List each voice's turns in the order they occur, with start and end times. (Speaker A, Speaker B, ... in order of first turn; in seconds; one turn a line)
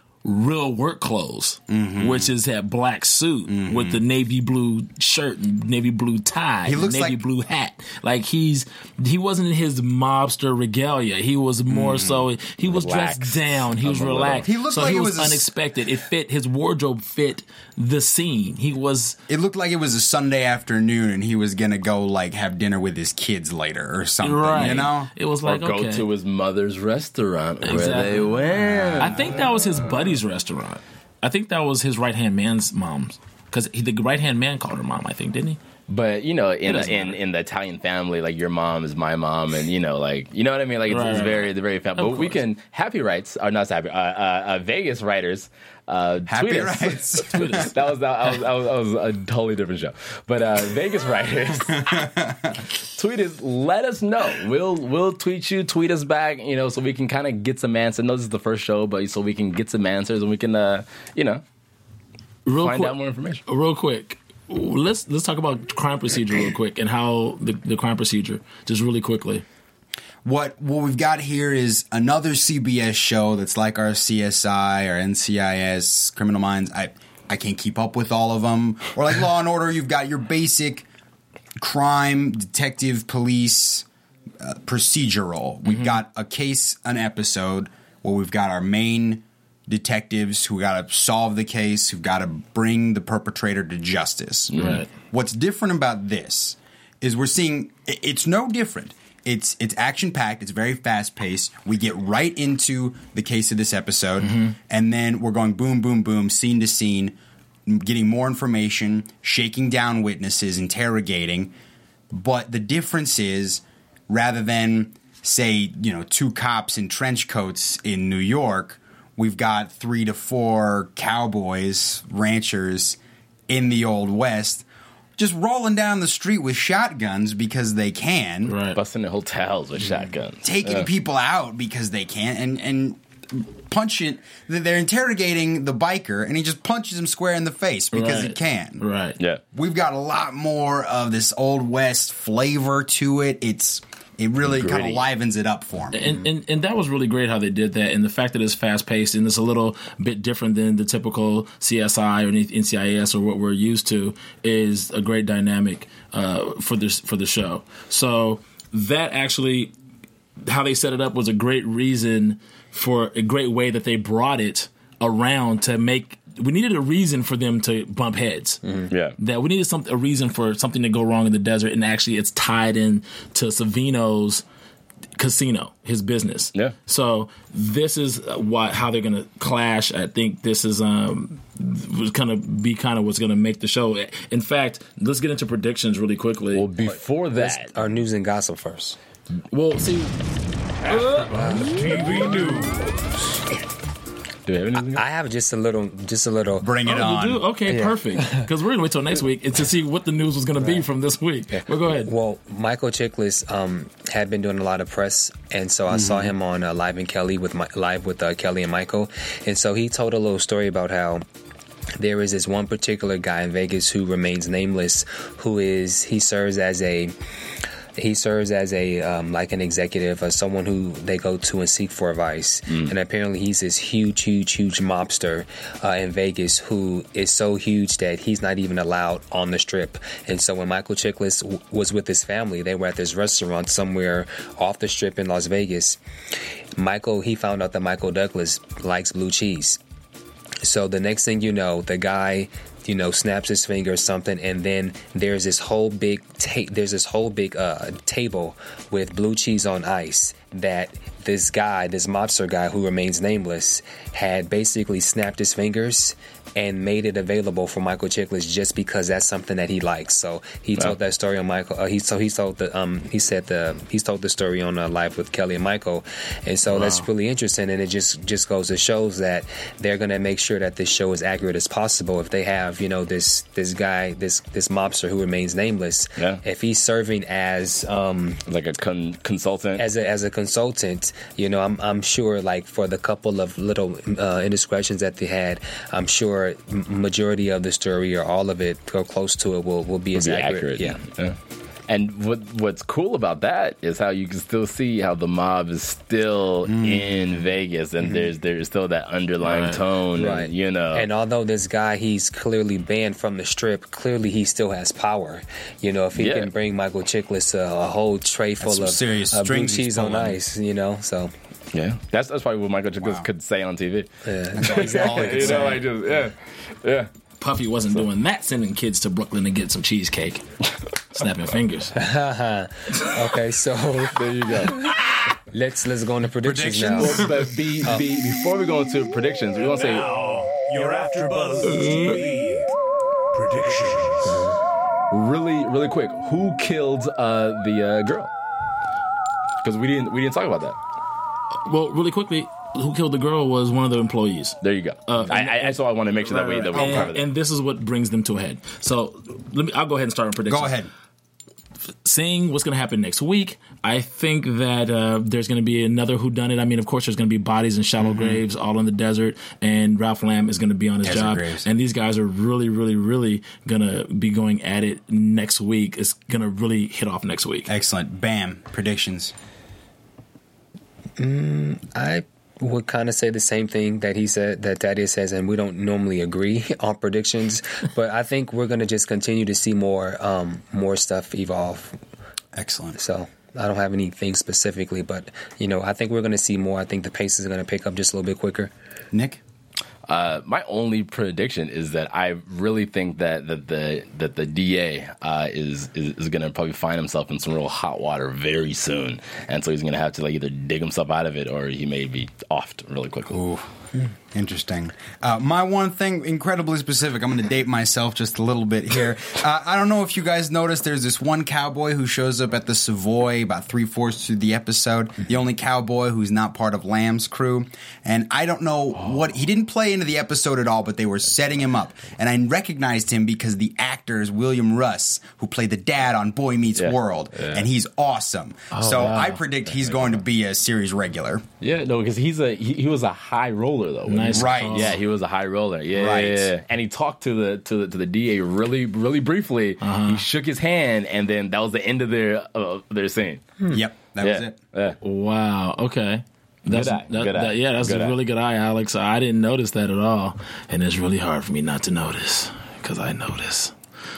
Speaker A: 0.2-19.2
Speaker B: 1.7-2.3
Speaker B: 3.5-4.0
Speaker B: 6.6-7.2
Speaker B: 11.7-12.3
Speaker C: 12.6-14.5
Speaker B: 14.4-15.5
Speaker B: 19.3-25.1
Speaker A: 24.2-26.0
Speaker C: 25.4-29.1
Speaker A: 27.6-35.6
Speaker B: 28.5-29.5
Speaker C: 35.9-51.9
Speaker B: 36.7-37.1
Speaker A: 40.9-42.4
Speaker B: 46.3-47.7
Speaker A: 47.3-47.7
Speaker B: 51.7-52.6
Speaker C: 52.9-61.4
Speaker A: 62.5-62.9
Speaker C: 62.6-63.4
Speaker A: 63.5-69.4
Speaker B: 70.2-80.8
Speaker B: 81.6-83.8
Speaker B: 84.4-107.1
Speaker A: 85.7-86.0
Speaker C: 94.5-94.8
Speaker A: 94.5-94.9
Speaker A: 104.2-104.5
Speaker B: 107.7-111.5
Speaker B: 112.1-123.0
Speaker B: 123.5-124.6
Speaker B: 125.2-128.6
Speaker A: 128.4-128.8
Speaker C: 128.8-130.9
Speaker B: 130.4-138.8
Speaker A: 137.9-139.2
Speaker B: 139.5-146.1
Speaker C: 144.4-145.1
Speaker A: 145.9-159.7
Speaker A: 160.4-168.6
Speaker D: 168.6-168.9
Speaker C: 168.9-169.2
Speaker A: 169.2-174.4
Speaker A: 175.2-186.6
Speaker C: 186.5-187.7
Speaker D: 186.8-189.0
Speaker A: 189.5-190.2
Speaker A: 190.8-192.4
Speaker D: 191.3-192.1
Speaker B: 191.7-192.9
Speaker C: 194.4-195.0
Speaker D: 194.8-196.7
Speaker B: 196.6-197.5
Speaker A: 196.8-202.1
Speaker D: 197.7-198.5
Speaker D: 201.5-211.2
Speaker B: 205.9-206.3
Speaker D: 212.0-217.2
Speaker D: 217.9-236.0
Speaker D: 236.8-239.8
Speaker D: 240.6-278.4
Speaker C: 278.5-279.8
Speaker D: 279.8-291.0
Speaker C: 290.1-291.4
Speaker C: 291.9-301.1
Speaker B: 296.6-297.1
Speaker A: 299.4-299.8
Speaker D: 300.1-311.3
Speaker C: 306.1-306.5
Speaker B: 308.6-310.4
Speaker C: 311.7-317.1
Speaker B: 313.0-313.3
Speaker D: 314.2-315.8
Speaker B: 314.6-315.8
Speaker A: 317.4-320.4
Speaker A: 321.1-322.0
Speaker D: 321.9-324.9
Speaker C: 324.1-324.8
Speaker D: 325.5-328.1
Speaker E: 326.5-327.1
Speaker C: 326.8-330.1
Speaker E: 329.6-332.7
Speaker A: 331.6-332.2
Speaker E: 333.3-334.4
Speaker C: 335.1-338.3
Speaker C: 339.6-340.8
Speaker A: 341.6-350.8
Speaker C: 344.6-347.3
Speaker B: 346.7-347.1
Speaker B: 350.5-350.9
Speaker A: 352.0-367.7
Speaker B: 358.0-358.4
Speaker B: 361.0-361.6
Speaker B: 367.7-369.3
Speaker D: 371.2-382.0
Speaker B: 382.5-383.0
Speaker D: 383.0-388.7
Speaker B: 389.1-389.4
Speaker C: 390.1-403.4
Speaker B: 403.3-403.6
Speaker B: 404.3-431.4
Speaker C: 426.8-427.6
Speaker A: 428.7-429.4
Speaker C: 429.7-430.2
Speaker C: 431.6-443.5
Speaker A: 434.1-434.9
Speaker B: 434.2-435.0
Speaker B: 435.9-436.5
Speaker A: 439.8-440.2
Speaker B: 443.7-444.5
Speaker C: 444.2-445.0
Speaker A: 445.0-453.7
Speaker C: 446.7-448.2